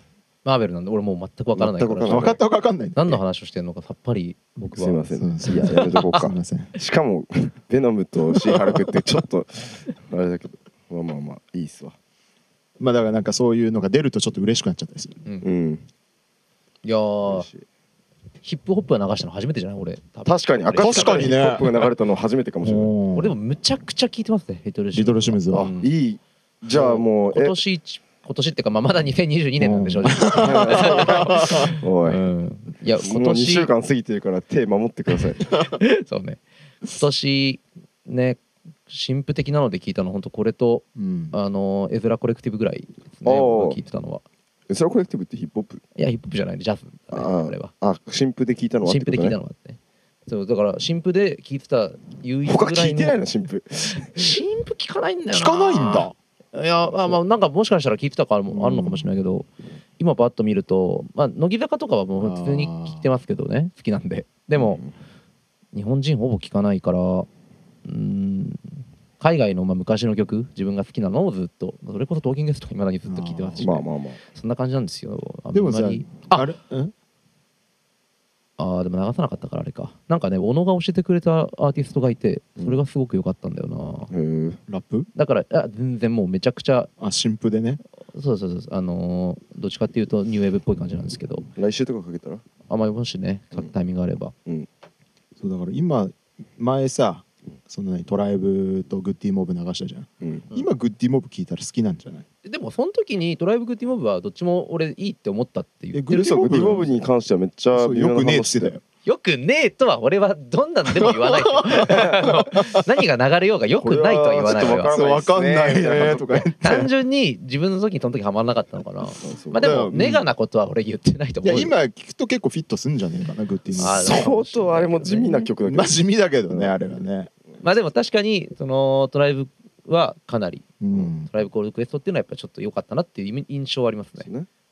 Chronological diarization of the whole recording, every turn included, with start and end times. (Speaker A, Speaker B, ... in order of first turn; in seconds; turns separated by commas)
Speaker A: 0.4-2.4, Speaker B: 1.6-2.4, Speaker C: 2.0-3.2, Speaker A: 2.9-6.2, Speaker B: 4.7-11.9, Speaker C: 5.1-6.7, Speaker C: 8.4-9.2, Speaker C: 12.8-15.2, Speaker B: 15.4-15.8, Speaker A: 16.8-17.5, Speaker B: 17.2-17.6, Speaker A: 18.4-21.4, Speaker B: 20.2-22.9, Speaker C: 20.8-21.7, Speaker C: 22.6-23.3, Speaker A: 23.1-25.9, Speaker C: 24.9-25.7, Speaker B: 25.5-27.6, Speaker A: 26.7-33.7, Speaker C: 29.6-31.7, Speaker B: 30.4-32.2, Speaker B: 33.0-35.5, Speaker A: 35.6-44.2, Speaker C: 40.9-41.3, Speaker B: 43.2-43.8, Speaker B: 44.7-45.8, Speaker A: 46.0-47.7, Speaker B: 47.1-49.4, Speaker A: 48.8-53.2, Speaker B: 52.5-54.4, Speaker A: 54.2-64.8, Speaker C: 55.3-56.1, Speaker C: 58.5-59.1, Speaker C: 62.2-63.0, Speaker B: 64.5-64.9, Speaker A: 65.7-67.3, Speaker A: 67.8-76.5, Speaker C: 73.1-73.8, Speaker B: 73.6-74.2, Speaker C: 75.5-76.9, Speaker A: 78.6-84.1, Speaker B: 84.1-84.6, Speaker C: 84.7-85.1, Speaker A: 85.1-86.9, Speaker C: 87.0-87.8, Speaker A: 88.1-91.5, Speaker B: 91.5-92.4, Speaker A: 92.7-94.3, Speaker C: 95.4-102.2, Speaker B: 100.2-100.5, Speaker A: 102.4-106.0, Speaker C: 105.9-106.9, Speaker B: 106.1-108.7, Speaker C: 107.7-108.8, Speaker A: 109.0-114.9, Speaker C: 110.9-112.8, Speaker B: 113.8-116.3, Speaker C: 114.9-116.9, Speaker A: 116.6-121.7, Speaker B: 119.2-119.8, Speaker C: 119.6-120.3, Speaker C: 121.4-124.3, Speaker A: 123.8-125.4, Speaker B: 123.8-126.0, Speaker C: 125.6-127.3, Speaker B: 126.5-126.7, Speaker A: 127.6-130.7, Speaker C: 130.8-131.3, Speaker A: 131.2-134.3, Speaker B: 134.2-134.5